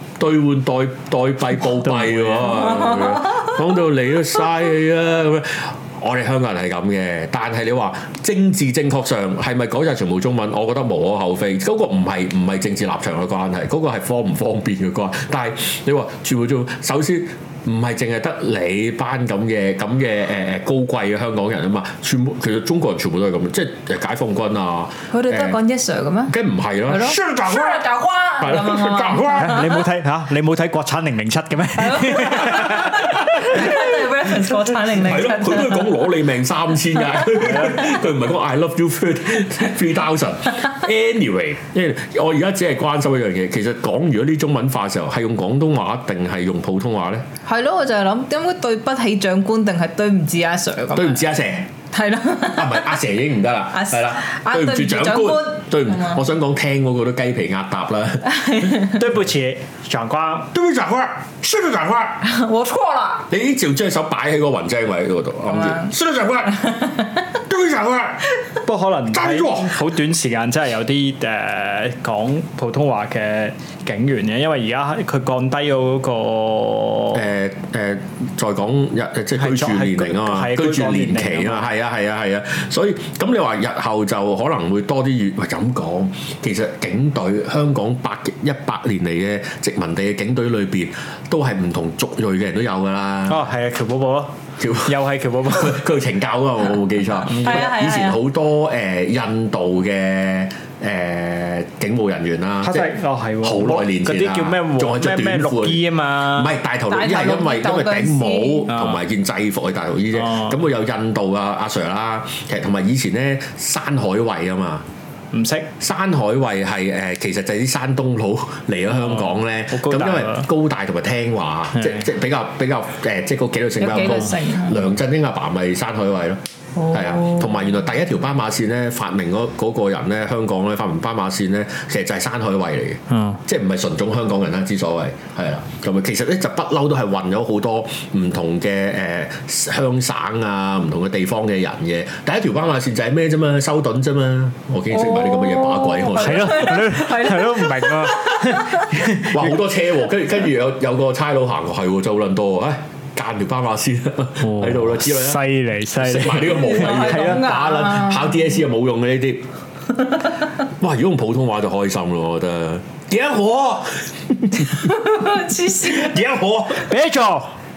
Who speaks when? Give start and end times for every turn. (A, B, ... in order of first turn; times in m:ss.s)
0:00.2-0:25.6 A
0:01.8-0:02.7 B
0:02.5-0:03.5 C
0:25.1-0:26.3 C
0:26.3-0:27.8 A
0:26.9-0:29.8 C
0:28.4-0:29.7 A
0:29.4-0:33.2 B
0:31.8-0:36.0 C
0:33.3-0:33.8 A
0:34.8-0:47.3 A
0:47.5-0:51.2 C
0:50.9-0:51.7 A
0:51.9-0:53.0 C
0:52.6-0:58.3 A
0:53.7-0:56.2 C
0:58.3-0:59.0 C
0:58.9-1:00.5 B
1:00.5-1:02.2 A
1:02.2-1:03.3 C
1:03.3-1:06.6 A
1:05.5-1:05.9 C
1:06.6-1:07.2 C
1:07.5-1:08.2 A
1:08.6-1:17.2 B
1:09.1-1:09.8 A
1:17.1-1:33.5 A
1:19.4-1:21.7 B
1:33.3-1:34.3 B
1:34.6-1:35.0 A
1:34.8-1:35.8 B
1:35.5-1:54.8 A
1:37.3-1:37.7 B
1:37.4-1:38.2 C
1:42.6-1:46.5 B
1:46.9-1:48.7 C
1:48.7-1:49.0 B
1:50.2-1:50.5 B
1:55.3-1:55.7 B
1:55.8-2:26.8 A
1:58.9-2:00.5 B
2:03.8-2:04.9 C
2:06.8-2:07.5 C
2:13.1-2:13.4 B
2:24.9-2:28.9 C
2:26.2-2:29.6 B
2:29.1-2:35.4 A
2:34.4-2:37.4 B
2:36.0-2:39.4 A
2:36.5-2:38.4 C
2:40.8-2:44.9 A
2:44.8-2:46.2 C
2:45.8-2:46.9 A
2:46.8-2:47.5 B